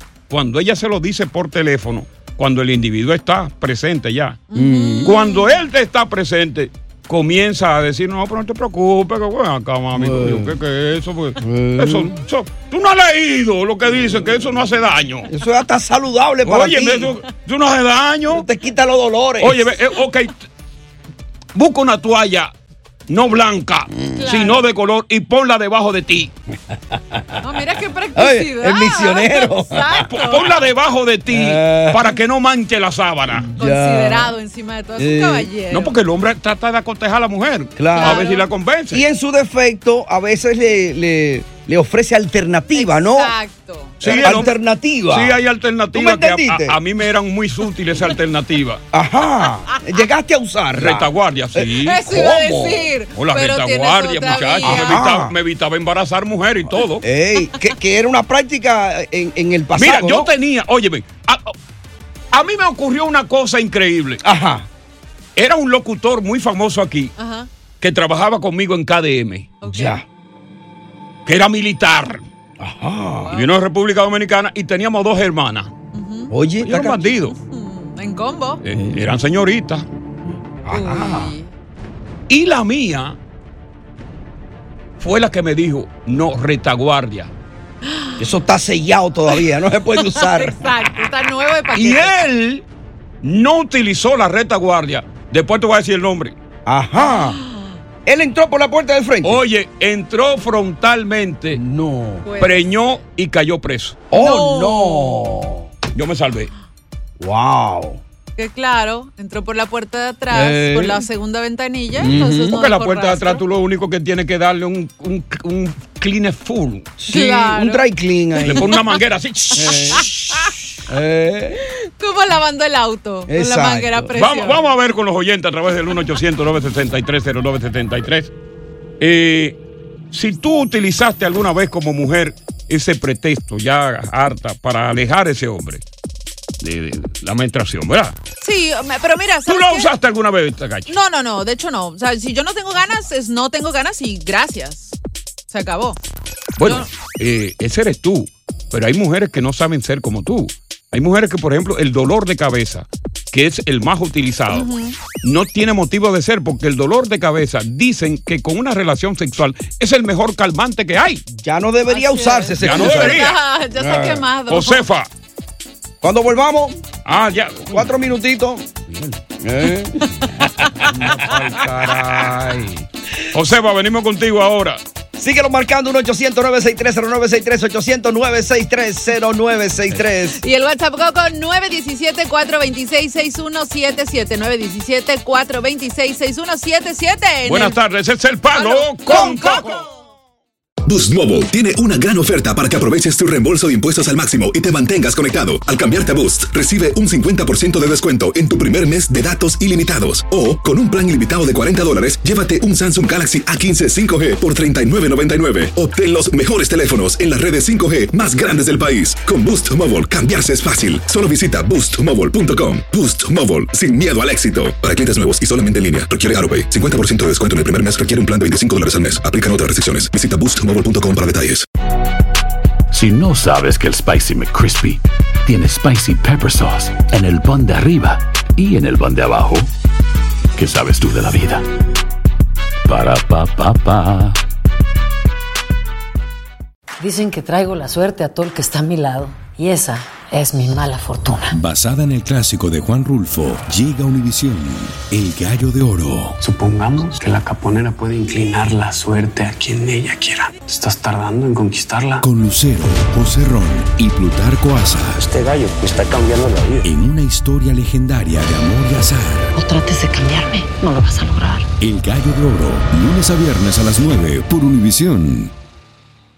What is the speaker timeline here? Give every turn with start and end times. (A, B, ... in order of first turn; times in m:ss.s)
0:00.3-0:04.4 A
0:04.5-0:05.5 B
0:04.5-0:05.2 C
0:05.0-0:15.3 A
0:09.9-0:10.5 C
0:11.4-0:12.1 C
0:15.3-0:17.1 C
0:16.4-0:18.4 A
0:18.3-0:19.7 C
0:19.4-0:20.4 A
0:21.5-0:22.5 A
0:23.1-0:26.3 A
0:24.2-0:24.6 B
0:26.9-0:27.4 C
0:27.4-0:30.5 B
0:28.1-0:30.1 C
0:30.1-0:33.5 A
0:31.3-0:32.1 C
0:33.3-0:34.3 C
0:33.6-0:35.9 B
0:35.0-0:35.5 C
0:35.7-0:39.0 A
0:37.8-0:38.3 C
0:38.0-0:38.4 B
0:38.9-0:43.3 C
0:42.7-0:44.5 B
0:44.0-0:44.5 A
0:44.0-0:45.4 C
0:45.1-0:48.8 A
0:45.9-0:46.8 C
0:48.9-0:52.9 C
0:50.7-0:52.0 A
0:51.8-0:55.0 B
0:53.1-0:57.0 A
0:54.6-0:55.3 C
0:57.0-1:00.3 C
0:59.8-1:01.5 A
1:02.3-1:04.2 A
1:04.2-1:04.7 C
1:05.4-1:07.1 A
1:07.2-1:07.5 B
1:07.8-1:09.5 A
1:09.6-1:10.0 B
1:09.7-1:10.0 C
1:11.2-1:12.2 A
1:12.6-1:13.3 C
1:13.2-1:13.5 B
1:13.3-1:15.7 A
1:15.9-1:16.3 B
1:16.3-1:17.0 C
1:16.6-1:17.3 A
1:17.2-1:18.6 B
1:18.6-1:19.8 A
1:18.7-1:19.0 C
1:20.6-1:21.3 C
1:20.7-1:21.5 B
1:22.3-1:23.2 A
1:25.0-1:27.3 A
1:27.8-1:28.2 B
1:28.2-1:30.7 C
1:30.0-1:32.1 B
1:31.7-1:32.6 A
1:33.2-1:36.3 A
1:36.6-1:37.4 C
1:37.0-1:37.7 B
1:38.0-1:39.4 C
1:39.2-1:41.6 A
1:41.5-1:42.2 C
1:42.2-1:42.7 B
1:42.4-1:44.0 A
1:44.1-1:45.7 C
1:44.1-1:45.3 B
1:45.9-1:46.5 A
1:47.2-1:48.0 C
1:48.4-1:53.4 B
1:50.3-1:51.0 C
1:52.0-1:52.5 C
1:52.0-1:56.9 A
1:57.0-1:58.7 C
1:57.1-1:57.8 B
1:58.4-2:00.0 A
1:59.5-2:01.6 C
1:59.9-2:00.5 B
2:01.8-2:04.6 B
2:03.3-2:04.1 C
2:04.1-2:08.3 A
2:09.0-2:09.6 A
2:10.1-2:15.8 A
2:16.6-2:18.2 A
2:18.4-2:19.9 B
2:19.5-2:20.9 A
2:20.9-2:25.0 B
2:25.5-2:26.0 B
2:26.6-2:34.7 A
2:34.5-2:35.0 B
2:35.2-2:41.2 A
2:41.3-2:44.2 C
2:41.9-2:44.8 B
2:42.6-2:43.4 A
2:44.5-2:45.1 A
2:46.0-2:46.8 C
2:47.0-2:47.9 A
2:47.7-2:48.6 C
2:48.9-2:49.2 A
2:49.4-2:50.1 C
2:50.6-2:52.6 C
2:50.9-2:52.8 A
2:53.3-2:54.8 A
2:55.2-3:00.4 C
3:00.4-3:07.8 B
3:07.4-3:09.8 A
3:08.5-3:09.7 B
3:09.1-3:09.5 C
3:10.8-3:41.6 D
3:42.9-3:49.7 E
3:50.6-3:51.6 E
3:52.8-3:54.4 E
3:57.0-4:01.6 F
4:01.5-4:06.4 G
4:06.4-4:12.2 H
4:12.2-4:15.3 G
4:16.8-4:19.5 G
4:19.5-4:21.6 F
4:21.8-4:25.5 G